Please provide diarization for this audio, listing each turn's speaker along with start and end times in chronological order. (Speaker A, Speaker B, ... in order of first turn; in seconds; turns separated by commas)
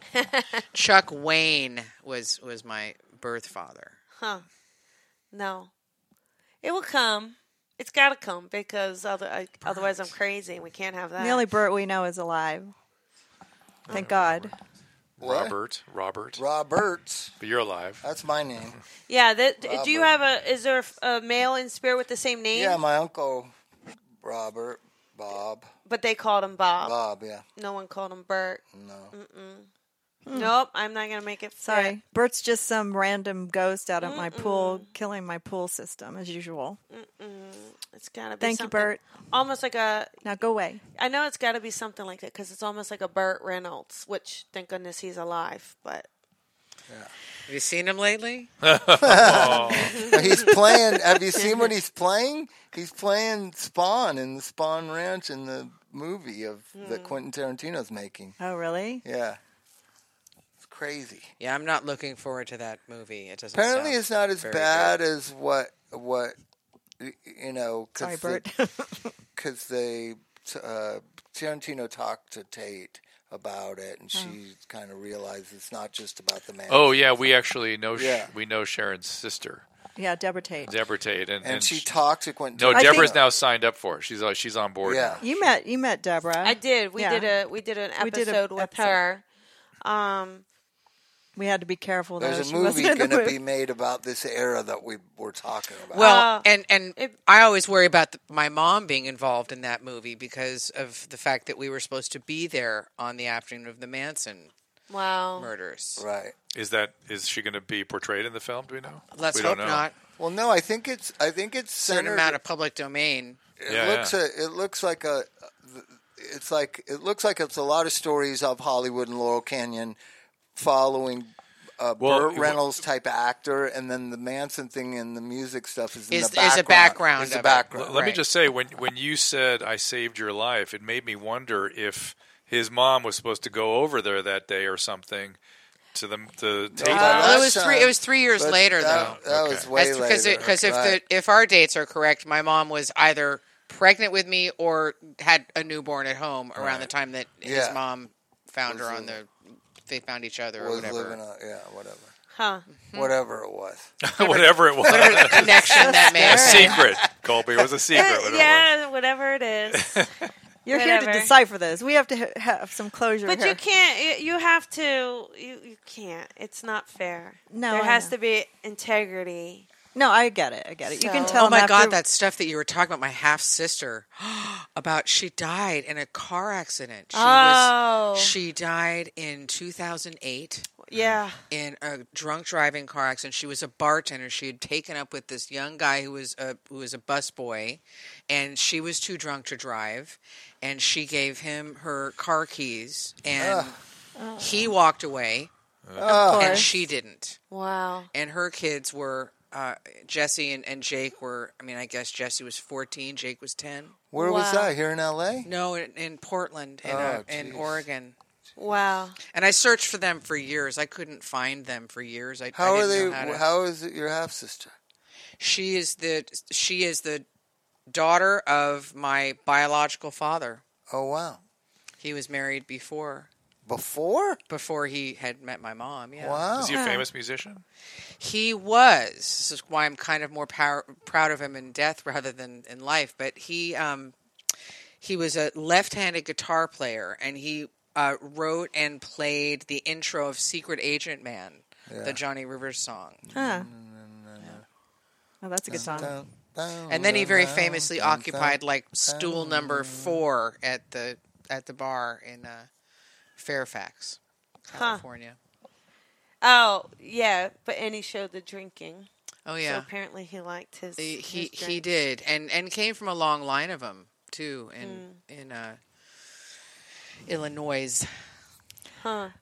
Speaker A: 0.1-0.6, Speaker B: 0.7-4.0, Speaker A: 4.2-4.4, Speaker A: 5.3-5.7, Speaker A: 6.6-11.4, Speaker C: 11.2-12.7, Speaker D: 13.9-14.5, Speaker C: 13.9-14.5, Speaker E: 15.2-15.6, Speaker D: 15.2-16.4, Speaker E: 16.4-17.4, Speaker D: 17.4-18.0, Speaker E: 18.0-18.8, Speaker A: 19.1-22.8, Speaker E: 19.6-20.1, Speaker E: 22.5-23.5, Speaker E: 24.2-25.7, Speaker A: 25.9-26.9, Speaker E: 26.8-27.4, Speaker A: 27.6-29.7, Speaker E: 28.7-29.1, Speaker C: 30.2-30.5, Speaker A: 30.3-31.9, Speaker C: 31.6-36.8, Speaker A: 34.0-34.9, Speaker A: 36.9-40.2, Speaker C: 38.4-39.0, Speaker C: 40.2-40.8, Speaker A: 41.0-46.1, Speaker B: 47.5-48.5, Speaker D: 48.6-50.1, Speaker E: 49.0-58.4, Speaker A: 49.6-50.5, Speaker A: 56.7-57.2, Speaker C: 58.4-59.0, Speaker E: 59.0-59.4, Speaker E: 60.6-61.3, Speaker B: 61.4-65.0, Speaker E: 63.5-66.3, Speaker E: 67.0-68.4, Speaker C: 68.0-69.1, Speaker E: 69.3-76.9, Speaker D: 76.7-79.7, Speaker E: 77.9-78.3, Speaker C: 80.0-80.7, Speaker D: 80.7-81.9, Speaker E: 81.4-83.2, Speaker D: 82.5-85.5, Speaker C: 82.7-83.1, Speaker E: 84.8-85.2, Speaker C: 85.2-87.3, Speaker A: 86.4-89.2, Speaker C: 88.0-89.0, Speaker A: 89.8-90.4, Speaker C: 91.3-93.4, Speaker E: 92.2-96.1, Speaker B: 95.9-104.5, Speaker A: 95.9-97.2, Speaker A: 104.9-105.5, Speaker B: 105.4-106.0, Speaker E: 106.0-106.3, Speaker D: 106.5-109.9, Speaker B: 109.1-109.9, Speaker E: 110.2-112.4, Speaker B: 111.8-113.4, Speaker E: 113.6-120.0, Speaker D: 113.7-114.1, Speaker E: 120.5-128.0, Speaker D: 122.0-122.8, Speaker B: 126.1-128.2, Speaker D: 127.7-135.4, Speaker D: 135.9-137.6, Speaker E: 136.7-141.0, Speaker B: 136.9-139.2, Speaker D: 138.8-139.8, Speaker B: 139.7-151.2, Speaker D: 140.4-140.7, Speaker D: 146.6-146.9, Speaker E: 147.4-147.8, Speaker E: 148.7-149.2, Speaker E: 150.6-152.1, Speaker A: 152.3-152.7, Speaker B: 152.9-153.1, Speaker E: 152.9-153.9, Speaker D: 154.0-158.7, Speaker B: 154.2-156.8, Speaker E: 154.9-157.7, Speaker C: 155.8-156.8, Speaker A: 157.9-160.1, Speaker D: 159.7-160.1, Speaker C: 160.6-163.6, Speaker A: 160.7-161.3, Speaker A: 163.2-169.7, Speaker C: 167.5-168.1, Speaker C: 169.9-172.0, Speaker A: 170.9-171.4, Speaker B: 171.2-180.7, Speaker A: 177.1-178.3, Speaker A: 180.8-181.4, Speaker B: 181.5-193.8, Speaker E: 193.4-193.7, Speaker C: 194.2-194.7, Speaker B: 194.4-195.5, Speaker D: 195.9-196.3, Speaker E: 196.0-196.7, Speaker C: 196.0-196.7, Speaker B: 196.2-197.4, Speaker A: 197.5-198.1, Speaker B: 198.1-204.0, Speaker E: 204.1-205.5, Speaker A: 204.2-204.7, Speaker B: 205.4-208.1, Speaker E: 206.8-207.9, Speaker A: 208.6-209.2, Speaker B: 209.3-213.4, Speaker E: 212.5-214.7, Speaker B: 215.4-217.2, Speaker B: 217.9-220.6, Speaker E: 220.9-221.4, Speaker B: 222.0-223.3, Speaker E: 223.7-224.4, Speaker B: 224.5-226.5, Speaker E: 226.2-226.8, Speaker D: 226.5-227.6, Speaker C: 226.6-227.1, Speaker B: 228.2-234.1, Speaker B: 235.0-243.2, Speaker E: 241.9-242.2, Speaker E: 243.3-244.6, Speaker C: 243.3-243.7, Speaker C: 245.4-246.1, Speaker E: 245.7-250.2, Speaker B: 245.7-246.1, Speaker B: 246.9-252.7, Speaker B: 253.4-254.2, Speaker B: 254.7-255.4, Speaker A: 254.7-255.0, Speaker A: 256.4-259.1, Speaker B: 259.4-259.9, Speaker A: 259.6-261.8, Speaker B: 261.0-265.8, Speaker A: 264.8-265.2, Speaker B: 267.3-268.1, Speaker A: 269.0-269.3